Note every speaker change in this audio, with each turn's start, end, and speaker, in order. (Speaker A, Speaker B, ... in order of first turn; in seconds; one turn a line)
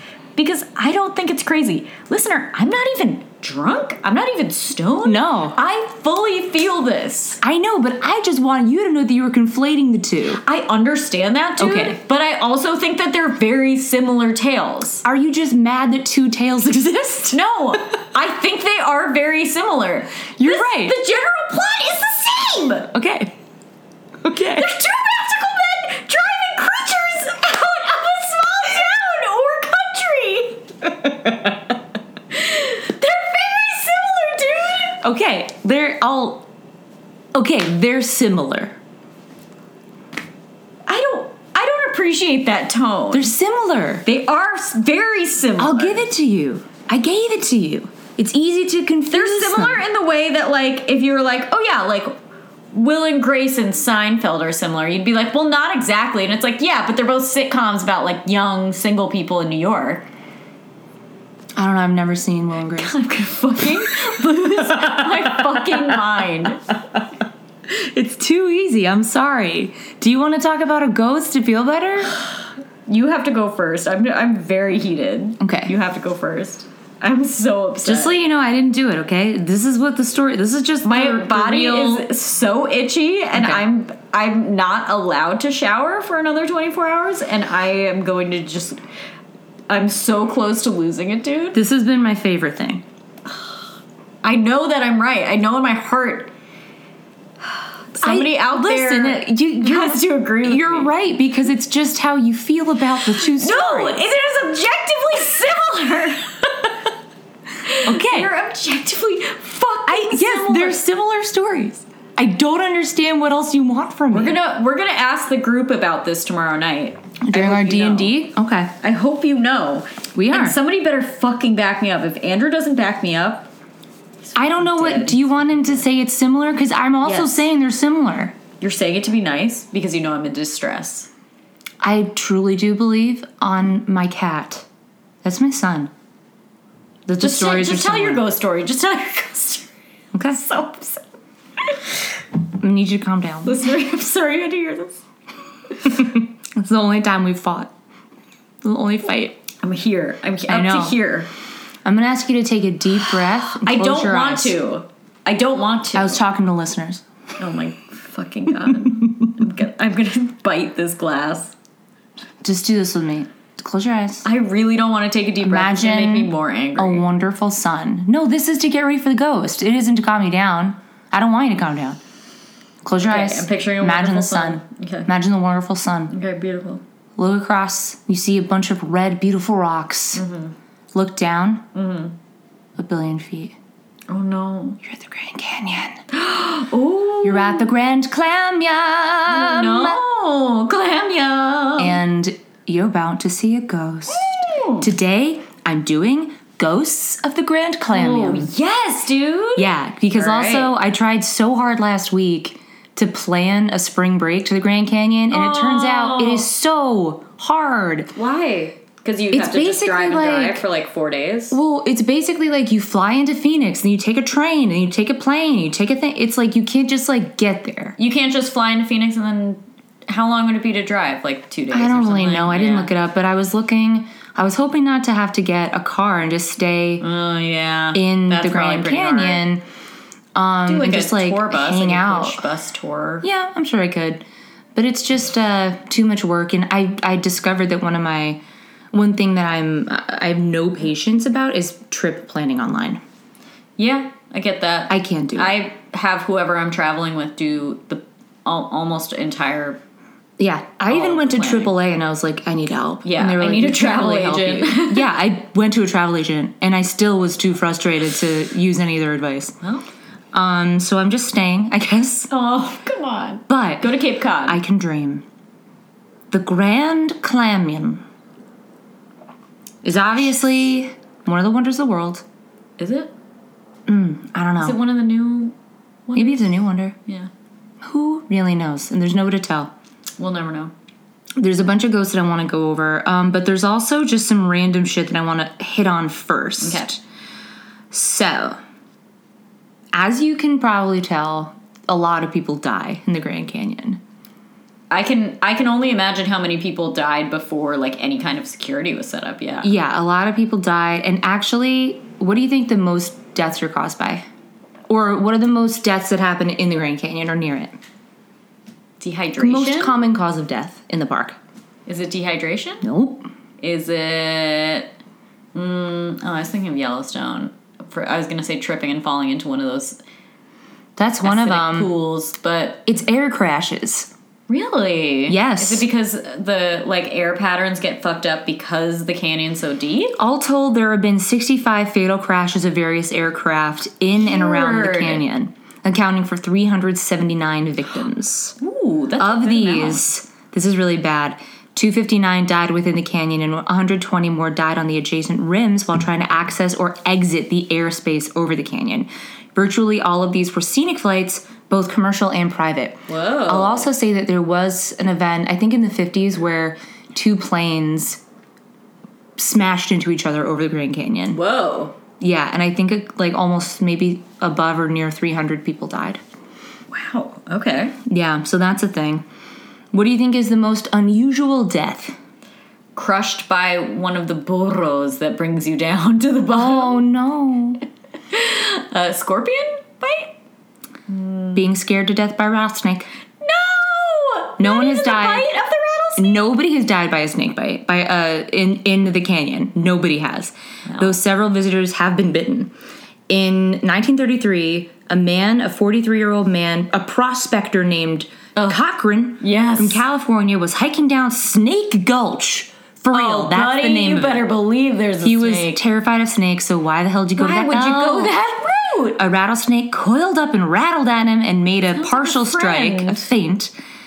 Speaker A: 0.4-7.4
Speaker B: 5.0-5.6
Speaker B: 7.4-10.4
Speaker A: 10.4-15.1
Speaker B: 11.6-12.0
Speaker B: 15.1-17.4
Speaker A: 17.3-22.9
Speaker B: 20.4-21.0
Speaker B: 22.9-23.4
Speaker B: 24.2-24.8
Speaker A: 24.6-30.7
Speaker B: 31.0-31.6
Speaker A: 32.3-35.0
Speaker B: 35.0-36.5
Speaker B: 37.3-38.8
Speaker A: 40.9-43.3
Speaker B: 43.1-44.0
Speaker A: 44.0-46.0
Speaker B: 45.6-49.8
Speaker A: 49.1-52.2
Speaker A: 52.7-60.1
Speaker B: 61.6-63.0
Speaker A: 62.8-66.7
Speaker B: 64.8-65.7
Speaker B: 67.7-72.1
Speaker A: 72.9-78.2
Speaker B: 75.4-75.8
Speaker B: 77.8-82.1
Speaker A: 80.8-88.8
Speaker B: 83.3-83.6
Speaker A: 89.7-91.6
Speaker B: 91.5-92.8
Speaker A: 94.2-96.3
Speaker A: 97.4-100.9
Speaker B: 98.0-104.0
Speaker A: 103.2-106.8
Speaker A: 107.6-110.8
Speaker B: 107.8-108.3
Speaker B: 109.9-114.4
Speaker A: 114.1-118.2
Speaker B: 117.2-118.7
Speaker A: 118.8-123.5
Speaker B: 120.1-120.6
Speaker A: 124.3-125.5
Speaker B: 124.3-128.4
Speaker A: 127.0-127.5
Speaker A: 128.6-131.1
Speaker B: 131.8-134.7
Speaker B: 135.2-135.9
Speaker B: 137.1-138.2
Speaker A: 137.2-139.7
Speaker B: 140.1-140.4
Speaker A: 140.3-141.0
Speaker B: 142.6-143.6
Speaker A: 143.4-145.0
Speaker B: 145.8-147.7
Speaker B: 148.6-149.4
Speaker A: 149.6-151.3
Speaker B: 150.5-151.0
Speaker B: 151.8-154.6
Speaker A: 153.5-156.2
Speaker B: 155.9-157.0
Speaker A: 157.4-161.5
Speaker B: 162.4-164.3
Speaker A: 164.2-167.1
Speaker B: 165.4-172.0
Speaker B: 172.8-176.1
Speaker A: 173.0-175.1
Speaker A: 176.1-176.8
Speaker B: 177.2-180.2
Speaker A: 180.1-180.5
Speaker B: 180.9-181.7
Speaker A: 181.7-182.2
Speaker B: 182.8-183.6
Speaker A: 184.1-184.8
Speaker B: 184.8-186.0
Speaker A: 186.1-187.7
Speaker B: 187.2-190.0
Speaker A: 189.3-192.0
Speaker B: 191.8-194.3
Speaker A: 194.1-194.9
Speaker B: 194.8-198.5
Speaker A: 197.9-200.7
Speaker B: 199.6-208.1
Speaker A: 205.3-206.5
Speaker A: 208.1-211.6
Speaker B: 209.3-210.6
Speaker B: 211.5-218.0
Speaker A: 218.0-222.9
Speaker B: 221.7-227.0
Speaker A: 227.0-229.4
Speaker B: 227.9-229.6
Speaker B: 230.3-232.5
Speaker A: 230.7-233.3
Speaker B: 233.2-234.2
Speaker B: 234.8-238.4
Speaker B: 238.9-243.0
Speaker A: 243.8-249.8
Speaker B: 244.9-245.6
Speaker B: 250.4-259.6
Speaker A: 250.9-251.7
Speaker A: 253.0-255.1
Speaker B: 260.3-262.3
Speaker A: 262.3-264.6
Speaker B: 263.5-265.2
Speaker B: 266.3-268.0
Speaker B: 269.8-272.2
Speaker A: 272.8-273.1
Speaker B: 273.9-274.8
Speaker A: 274.6-275.6
Speaker A: 276.1-277.3
Speaker B: 276.1-276.9
Speaker B: 277.8-279.7
Speaker A: 280.2-280.7
Speaker B: 281.4-287.0
Speaker A: 286.6-287.0
Speaker B: 287.9-288.6
Speaker B: 289.9-294.0
Speaker A: 294.9-299.7
Speaker B: 299.6-304.3
Speaker B: 304.9-307.8
Speaker A: 309.0-310.0
Speaker B: 309.4-311.4
Speaker A: 311.9-312.9
Speaker B: 312.8-313.3
Speaker A: 313.6-314.9
Speaker A: 315.6-320.0
Speaker B: 321.0-321.9
Speaker A: 321.2-322.9
Speaker B: 322.9-324.1
Speaker A: 324.5-330.2
Speaker B: 325.3-325.9
Speaker B: 330.2-338.6
Speaker A: 334.2-335.2
Speaker A: 338.6-340.1
Speaker B: 339.2-358.2
Speaker A: 353.1-353.9
Speaker B: 359.4-361.4
Speaker A: 361.3-361.9
Speaker B: 362.2-366.2
Speaker A: 366.9-368.0
Speaker B: 368.1-369.2
Speaker B: 369.9-372.2
Speaker A: 373.0-377.1
Speaker B: 376.5-377.8
Speaker A: 378.3-380.4
Speaker A: 381.1-381.6
Speaker B: 381.6-383.1
Speaker A: 383.4-386.5
Speaker B: 384.6-385.5
Speaker B: 386.2-392.7
Speaker A: 390.9-391.2
Speaker B: 393.3-404.5
Speaker A: 398.6-398.8
Speaker A: 399.4-400.0
Speaker A: 403.1-405.8
Speaker B: 405.2-408.4
Speaker A: 407.4-409.2
Speaker B: 409.2-413.7
Speaker A: 411.9-413.3